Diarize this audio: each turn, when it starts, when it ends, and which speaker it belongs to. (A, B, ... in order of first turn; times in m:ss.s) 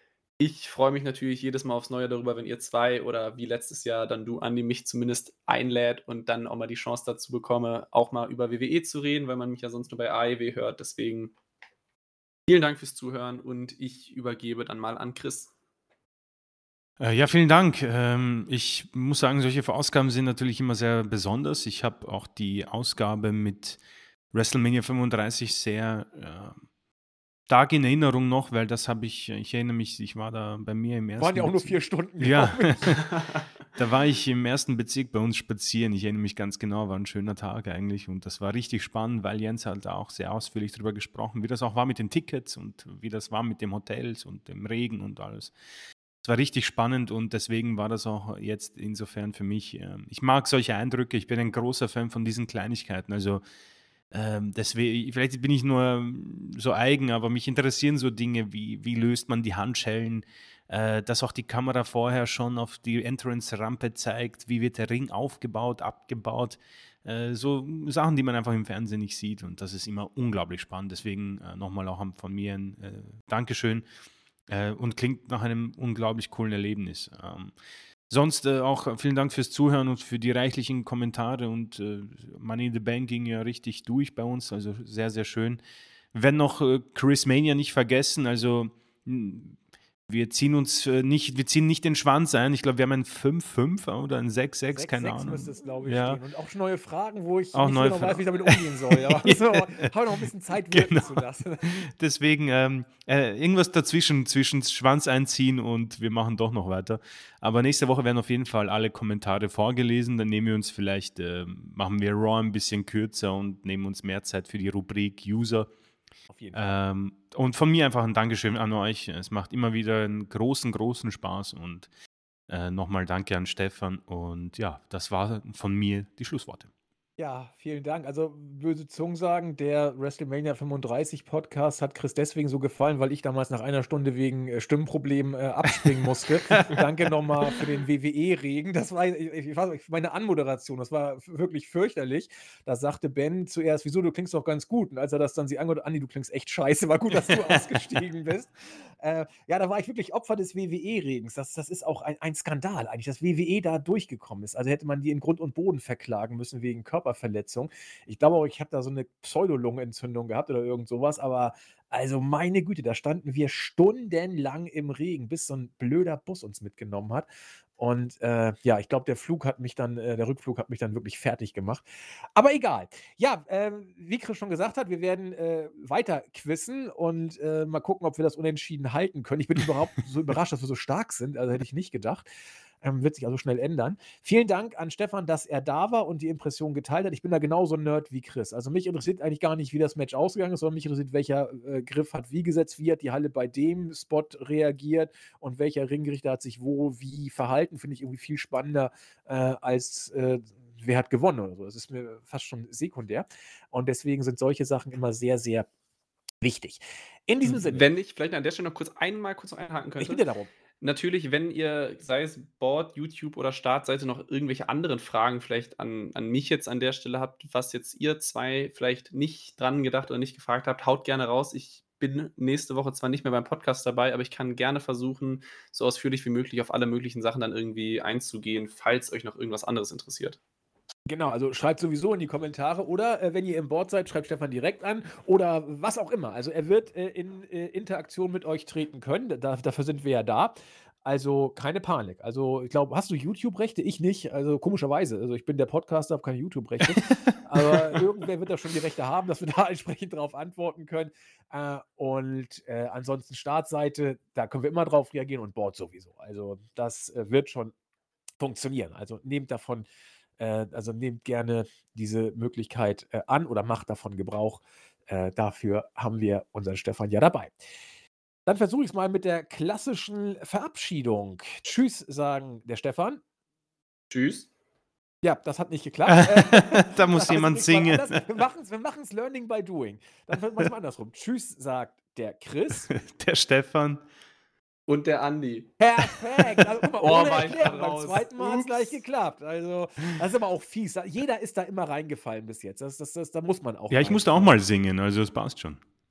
0:00.4-0:11.3 A
0:12.5-0:15.5 A
0:17.0-0:23.8 B
0:24.3-0:26.6 B
0:27.5-0:33.1 B
0:31.2-0:32.9 C
0:33.7-0:45.5 B
0:46.2-0:53.4 B
0:54.1-1:13.8 B
1:14.5-1:17.5 B
1:18.1-1:25.6 B
1:26.1-1:29.6 B
1:30.1-1:36.2 B
1:34.7-1:41.8 C
1:37.5-1:39.9 B
1:40.7-1:55.7 B
1:56.3-1:56.6 C
1:56.5-2:01.9 B
2:02.5-2:06.7 B
2:07.2-2:47.3 C
2:15.7-2:16.8 B
2:27.2-2:27.6 B
2:47.8-3:02.3 C
3:02.8-3:25.7 C
3:26.4-3:27.8 C
3:27.5-3:30.2 A
3:30.0-3:30.5 C
3:30.8-3:50.4 A
3:51.1-4:17.7 C
4:07.6-4:08.0 B
4:18.4-4:27.6 C
4:28.4-4:33.2 C
4:34.1-4:34.5 A
4:35.2-4:42.9 C
4:36.1-4:38.2 B
4:42.9-4:44.0 B
4:44.9-4:45.7 A
4:45.8-4:54.6 C
4:46.4-4:46.7 B
4:47.0-4:49.0 A
4:53.9-4:55.8 B